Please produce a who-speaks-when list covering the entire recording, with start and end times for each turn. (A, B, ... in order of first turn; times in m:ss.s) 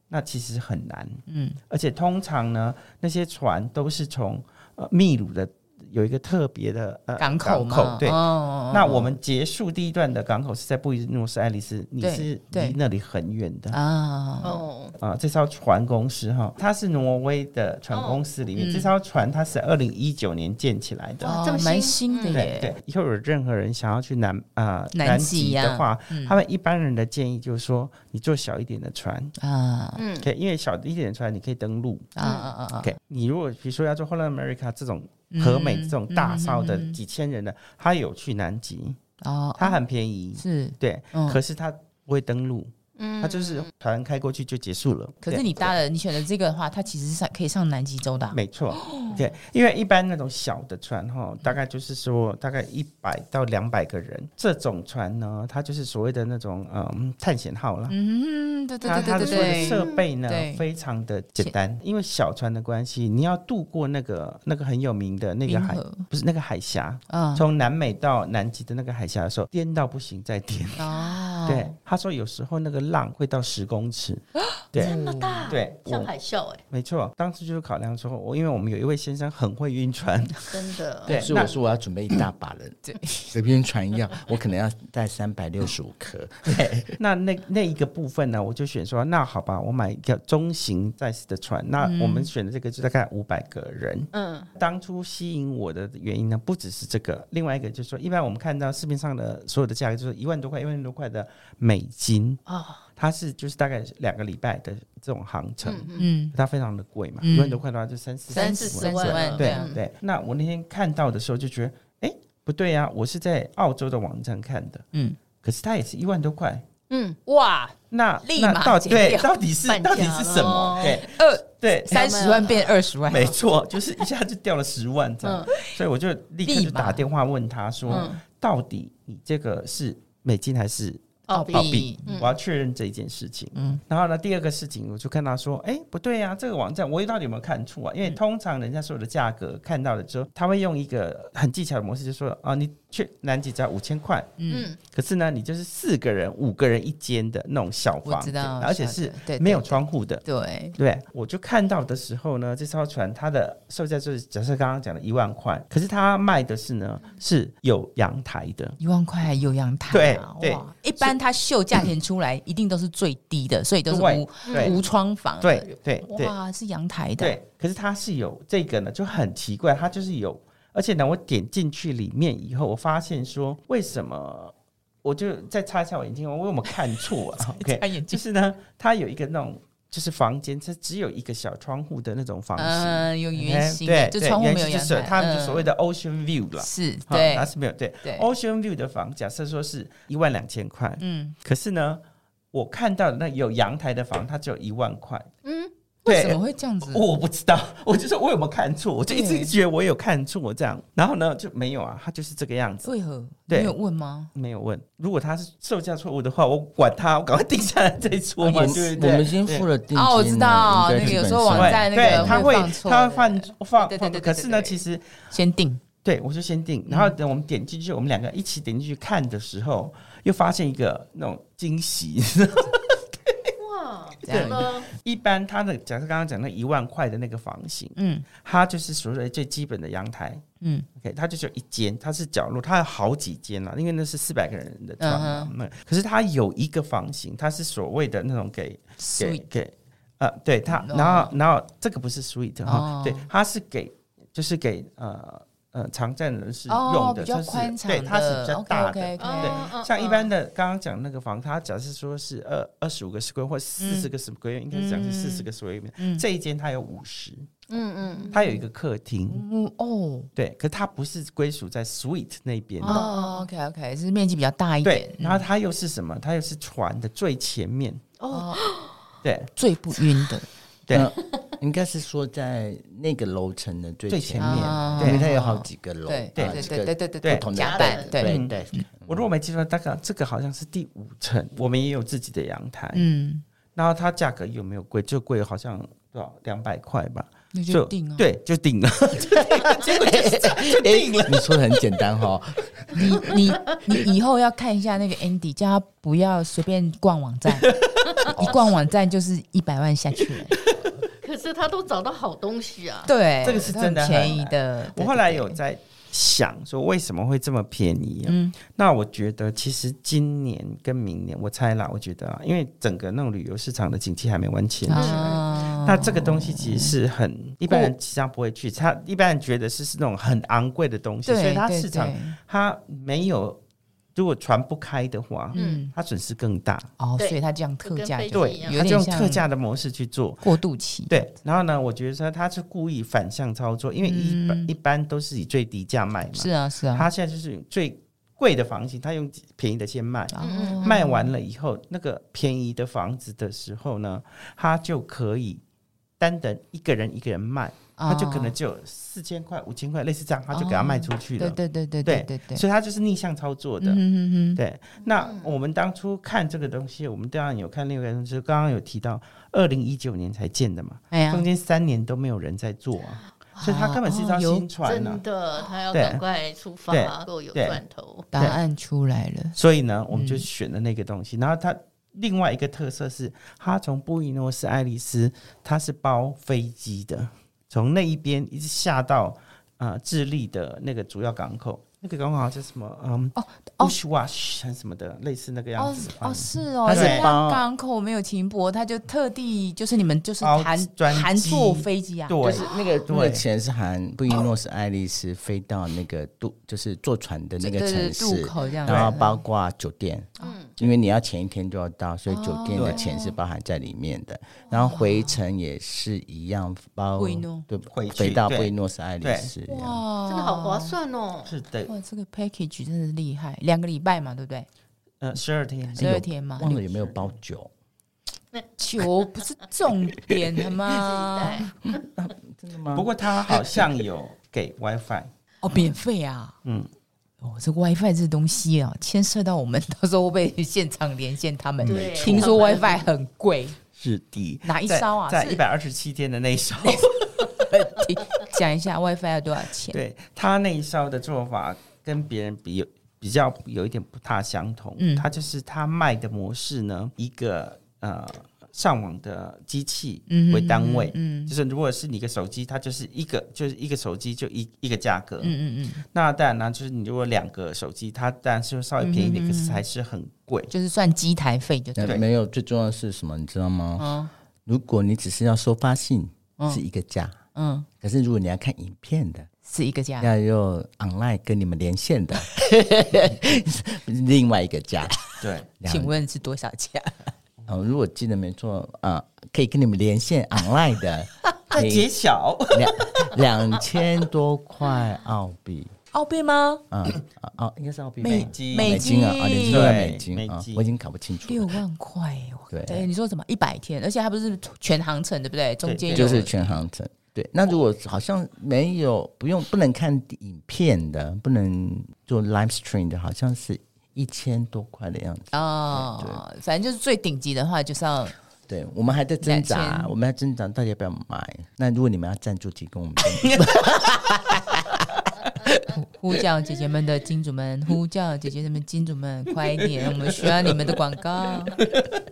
0:00.1-0:13.8 A
0:01.3-0:01.6 B
0:07.2-0:09.1 B
0:12.0-0:12.8 B
0:13.7-0:14.6 B
0:14.4-0:15.0 C
0:15.0-0:21.4 A
0:17.9-0:18.2 C
0:18.6-0:18.9 B
0:21.2-0:22.5 C
0:21.2-0:22.7 B
0:22.3-0:29.3 A
0:24.9-0:26.4 B
0:29.4-0:30.0 B
0:30.0-0:30.3 C
0:30.2-0:32.1 A
0:32.2-0:32.9 B
0:32.2-0:32.5 C
0:32.8-0:39.0 A
0:35.3-0:37.0 B
0:39.2-0:39.8 B
0:39.6-0:45.7 A
0:40.4-0:41.4 B
0:43.0-0:43.7 C
0:45.2-0:49.2 B
0:48.3-0:58.0 A
0:57.9-1:00.6 B
0:58.8-1:00.1 C
0:58.9-1:10.9 A
1:05.5-1:06.1 B
1:07.1-1:07.4 B
1:10.8-1:11.7 B
1:11.5-1:15.0 A
1:14.4-1:15.5 B
1:14.8-1:16.6 C
1:15.5-1:16.1 A
1:16.7-1:20.5 A
1:20.5-1:21.4 C
1:21.1-1:21.6 A
1:21.1-1:26.8 D
1:22.8-1:23.3 B
1:26.5-1:42.4 A
1:31.8-1:32.3 B
1:34.1-1:34.5 C
1:42.5-1:42.9 C
1:43.0-1:54.8 A
1:45.6-1:46.1 C
1:46.0-1:46.4 B
1:47.2-1:47.6 B
1:48.3-1:49.8 C
1:48.3-1:49.7 B
1:55.4-1:56.7 A
1:56.9-1:57.2 C
1:57.3-1:59.3 B
1:57.9-2:02.1 A
1:59.7-2:01.0 C
2:00.8-2:03.4 B
2:01.9-2:02.8 C
2:03.1-2:30.2 A
2:05.2-2:05.5 C
2:06.4-2:07.0 B
2:07.9-2:08.1 B
2:07.9-2:08.2 C
2:11.3-2:12.4 C
2:11.3-2:12.1 B
2:24.4-2:24.7 B
2:24.5-2:24.8 C
2:28.0-2:30.8 B
2:30.8-2:38.8 A
2:38.8-2:47.4 B
2:39.9-2:41.1 A
2:43.9-2:44.8 A
2:44.5-2:44.8 C
2:45.4-2:46.4 A
2:45.6-2:46.1 C
2:47.2-3:12.0 A
2:57.4-2:58.2 B
3:02.6-3:05.7 B
3:06.6-3:07.5 B
3:08.0-3:08.3 B
3:11.0-3:11.4 B
3:12.5-3:15.3 A
3:15.4-3:15.7 C
3:16.0-3:17.0 B
3:16.1-3:22.9 A
3:19.1-3:19.6 B
3:22.8-3:24.3 B
3:23.5-3:23.8 A
3:24.3-3:29.7 A
3:28.4-3:29.2 B
3:28.5-3:32.7 D
3:29.9-3:34.8 B
3:31.0-3:35.1 A
3:35.3-3:35.8 B
3:36.0-3:43.4 A
3:36.9-3:37.2 B
3:43.6-3:44.9 C
3:44.2-3:44.7 B
3:44.3-3:50.4 A
3:48.0-3:48.3 B
3:50.6-3:50.9 B
3:51.0-4:17.5 A
3:55.0-3:55.5 B
3:59.0-3:59.4 B
4:00.7-4:01.3 B
4:02.6-4:03.3 B
4:06.7-4:09.7 B
4:09.2-4:10.3 C
4:13.8-4:14.1 B
4:14.7-4:15.5 B
4:16.0-4:16.2 B
4:17.7-4:18.3 C
4:18.3-4:18.6 B
4:18.3-4:19.4 A
4:19.3-4:20.3 B
4:20.4-4:23.0 A
4:22.8-4:25.5 B
4:22.9-4:23.5 C
4:24.8-4:28.0 A
4:28.2-4:29.0 C
4:28.3-4:28.7 B
4:29.2-4:29.5 A
4:29.6-4:30.5 B
4:30.9-4:39.3 D
4:34.1-4:35.2 A
4:34.4-4:38.9 B
4:36.4-4:36.7 A
4:37.2-4:37.5 A
4:37.6-4:38.2 C
4:38.2-4:43.1 A
4:43.0-4:43.4 B
4:43.8-4:51.8 A
4:47.5-4:48.3 B
4:49.2-4:53.3 D
4:52.9-5:00.6 B
4:57.6-4:58.5 A
4:58.3-4:58.8 D
5:01.2-5:03.1 C
5:03.1-5:05.6 B
5:03.4-5:23.6 A
5:08.3-5:08.6 B
5:14.9-5:17.0 B
5:14.9-5:15.7 C
5:17.7-5:17.9 B
5:21.3-5:22.4 B
5:24.2-5:26.9 A
5:25.5-5:25.9 B
5:25.6-5:25.8 C
5:27.0-5:29.4 B
5:27.2-5:28.9 C
5:28.3-5:30.5 A
5:30.4-5:31.2 B
5:31.1-5:45.6 A
5:34.0-5:34.7 B
5:36.3-5:37.1 B
5:40.3-5:41.3 B
5:40.4-5:41.1 C
5:46.2-5:54.0 A
5:48.0-5:48.6 B
5:50.5-5:52.6 B
5:53.8-5:54.6 B
5:54.6-6:05.2 A
5:55.0-5:55.6 C
6:01.1-6:01.4 B
6:03.6-6:04.7 B
6:04.8-6:08.3 C
6:05.9-6:06.2 A
6:06.9-6:07.8 A
6:08.3-6:09.6 B
6:09.6-6:27.3 A
6:10.1-6:10.5 B
6:23.4-6:24.0 B
6:25.8-6:32.5 B
6:26.8-6:27.6 D
6:30.4-6:33.4 A
6:32.4-6:50.0 D
6:37.6-6:39.4 B
6:38.9-6:39.2 A
6:40.4-6:40.7 C
6:42.3-6:43.4 B
6:44.8-6:45.4 B
6:47.2-6:47.7 B
6:47.9-6:49.5 A
6:49.7-6:51.0 B
6:50.3-6:51.5 C
6:51.5-6:51.9 A
6:51.9-6:54.7 B
6:55.2-6:56.1 A
6:56.0-6:57.7 D
6:56.0-6:56.8 B
6:56.7-6:57.3 A
6:58.8-7:01.7 B
7:00.9-7:02.0 C
7:01.8-7:03.9 D
7:02.9-7:05.3 A
7:05.6-7:06.6 B
7:06.6-7:06.9 A
7:07.4-7:13.8 B
7:11.8-7:13.1 C
7:12.0-7:12.6 A
7:14.0-7:18.0 A
7:14.6-7:15.6 B
7:17.6-7:20.0 B
7:19.9-7:40.7 A
7:25.0-7:25.3 B
7:30.3-7:31.5 B
7:35.4-7:36.0 B
7:39.0-7:39.8 B
7:40.7-7:42.2 B
7:42.0-7:44.1 D
7:44.0-7:44.3 B
7:44.6-7:47.4 D
7:47.6-7:47.9 B
7:48.0-7:49.5 D
7:49.6-7:50.3 B
7:50.2-7:55.2 D
7:55.4-7:55.7 A
7:55.8-7:56.1 D
7:55.8-7:57.3 B
7:57.7-8:02.1 D
8:01.7-8:03.4 A
8:02.7-8:05.9 D
8:06.1-8:06.8 B
8:06.9-8:11.8 D
8:08.2-8:09.1 A
8:08.2-8:10.0 B
8:09.6-8:10.9 A
8:11.4-8:16.7 B
8:12.7-8:13.1 D
8:15.8-8:16.5 A
8:16.1-8:26.4 D
8:25.5-8:28.4 B
8:28.7-8:35.0 D
8:29.4-8:30.1 B
8:33.3-8:34.2 A
8:35.6-8:35.9 D
8:35.9-8:41.8 B
8:39.8-8:41.0 A
8:41.7-8:42.1 A